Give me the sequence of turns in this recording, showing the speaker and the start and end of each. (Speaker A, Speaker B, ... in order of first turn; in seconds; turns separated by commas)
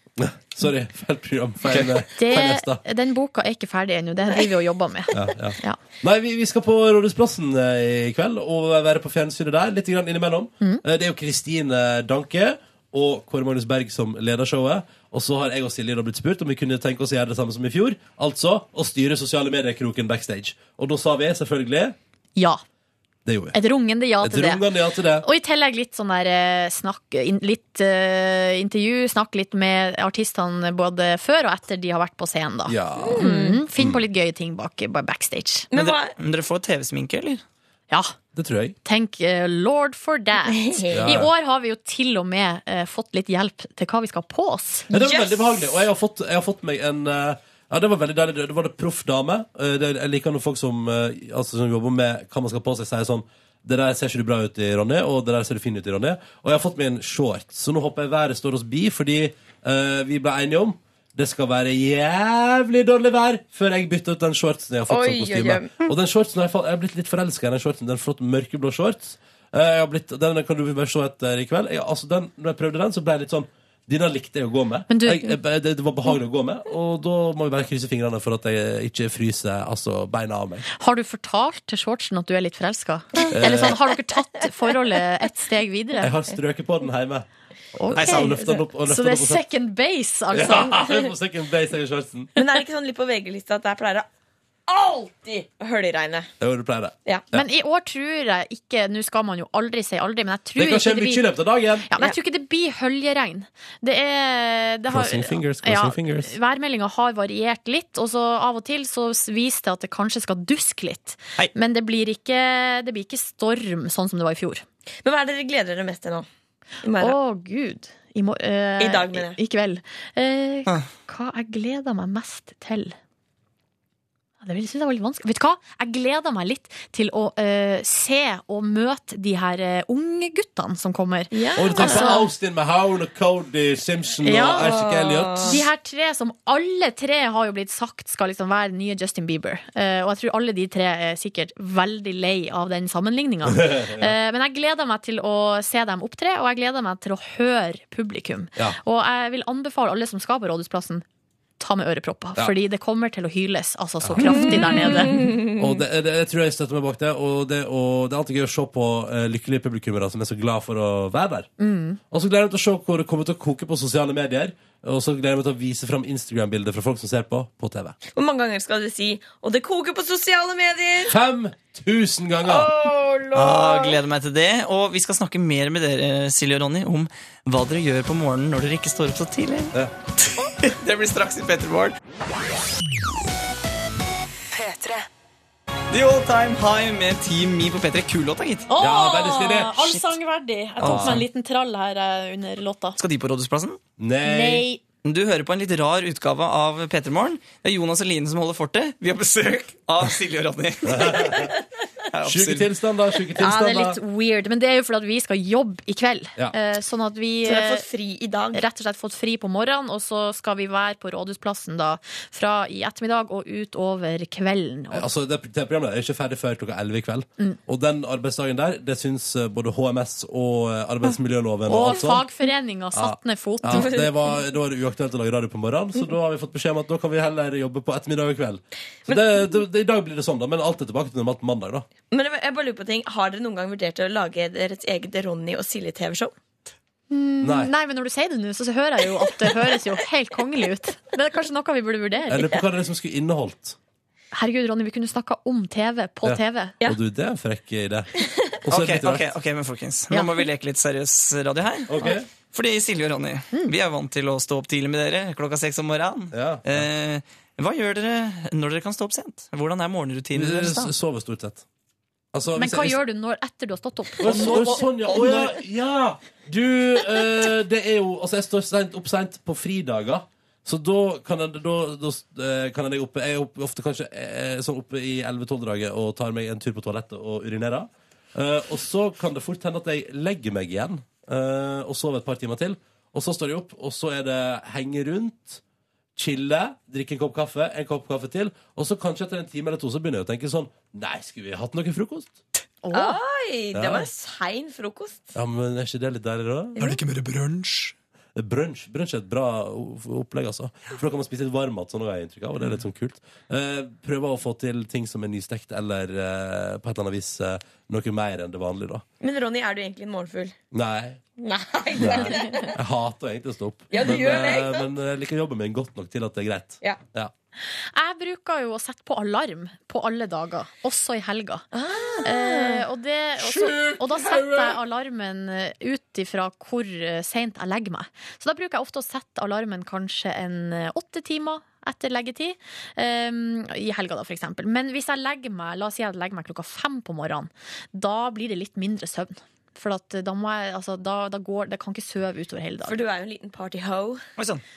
Speaker A: 0.2-2.8, Speaker B: 2.1-5.8, Speaker A: 5.1-22.0, Speaker B: 22.4-22.6, Speaker A: 23.2-23.6, Speaker B: 23.5-35.7, Speaker A: 24.2-25.3, Speaker A: 32.7-33.2, Speaker C: 33.0-33.6, Speaker A: 33.8-34.1, Speaker C: 35.7-36.1, Speaker D: 35.8-37.4, Speaker B: 37.9-38.2, Speaker A: 38.3-38.8, Speaker B: 38.8-44.9, Speaker C: 40.5-41.2, Speaker A: 40.9-41.3, Speaker C: 44.9-45.7, Speaker A: 44.9-80.7, Speaker C: 64.9-65.8, Speaker B: 74.9-75.4, Speaker B: 80.7-86.1, Speaker A: 83.3-83.8, Speaker A: 86.0-87.3, Speaker B: 87.8-91.1, Speaker A: 87.9-89.5, Speaker D: 87.9-88.3, Speaker A: 90.3-92.3, Speaker C: 92.4-94.1, Speaker C: 94.7-96.3, Speaker A: 96.4-97.5, Speaker B: 97.3-114.7, Speaker A: 100.6-101.9, Speaker A: 104.9-106.3, Speaker C: 115.0-116.3, Speaker C: 116.8-117.2, Speaker B: 117.0-123.0, Speaker C: 118.8-119.4, Speaker B: 124.4-132.3, Speaker C: 131.3-132.2, Speaker A: 131.6-135.6, Speaker B: 134.2-134.9, Speaker C: 134.6-135.6, Speaker B: 135.4-151.1, Speaker A: 143.5-144.1, Speaker B: 151.6-155.4, Speaker A: 154.0-154.8, Speaker A: 155.5-161.5, Speaker B: 161.6-162.0, Speaker A: 162.1-168.0, Speaker C: 168.1-171.2, Speaker A: 171.1-172.7, Speaker C: 172.5-174.0, Speaker D: 173.3-179.8, Speaker D: 180.4-182.0, Speaker D: 185.9-188.7, Speaker B: 188.7-193.0, Speaker A: 188.8-190.0, Speaker D: 190.8-191.2, Speaker A: 190.8-191.2, Speaker D: 193.0-193.8, Speaker A: 194.0-194.7, Speaker B: 194.2-194.8, Speaker D: 195.0-201.4, Speaker A: 200.9-201.5, Speaker D: 202.1-202.7, Speaker A: 202.2-204.0, Speaker B: 203.4-207.8, Speaker C: 207.4-208.6, Speaker B: 208.5-215.1, Speaker A: 214.9-222.3, Speaker B: 221.7-224.1, Speaker A: 222.9-231.9, Speaker C: 223.8-224.0, Speaker C: 232.1-236.3, Speaker B: 237.1-242.6, Speaker A: 237.4-237.7, Speaker A: 242.3-243.8, Speaker B: 244.3-246.8, Speaker A: 246.2-248.1, Speaker A: 248.7-249.3, Speaker D: 248.7-260.9, Speaker B: 250.1-250.5, Speaker A: 251.9-252.3, Speaker A: 256.3-256.9, Speaker A: 260.3-261.6, Speaker A: 262.3-263.0, Speaker B: 262.5-265.6, Speaker A: 264.2-285.6, Speaker A: 286.2-292.4, Speaker B: 292.8-293.2, Speaker C: 292.9-295.3, Speaker A: 293.7-294.1, Speaker A: 295.3-296.8, Speaker D: 296.8-297.9, Speaker A: 298.4-309.0, Speaker C: 309.2-310.6, Speaker A: 310.7-311.2, Speaker C: 311.4-312.7, Speaker A: 312.0-317.3, Speaker C: 313.9-314.9, Speaker B: 317.9-321.6, Speaker C: 321.7-322.9, Speaker B: 322.2-343.0, Speaker A: 323.4-324.7, Speaker C: 342.9-344.2, Speaker D: 344.4-344.6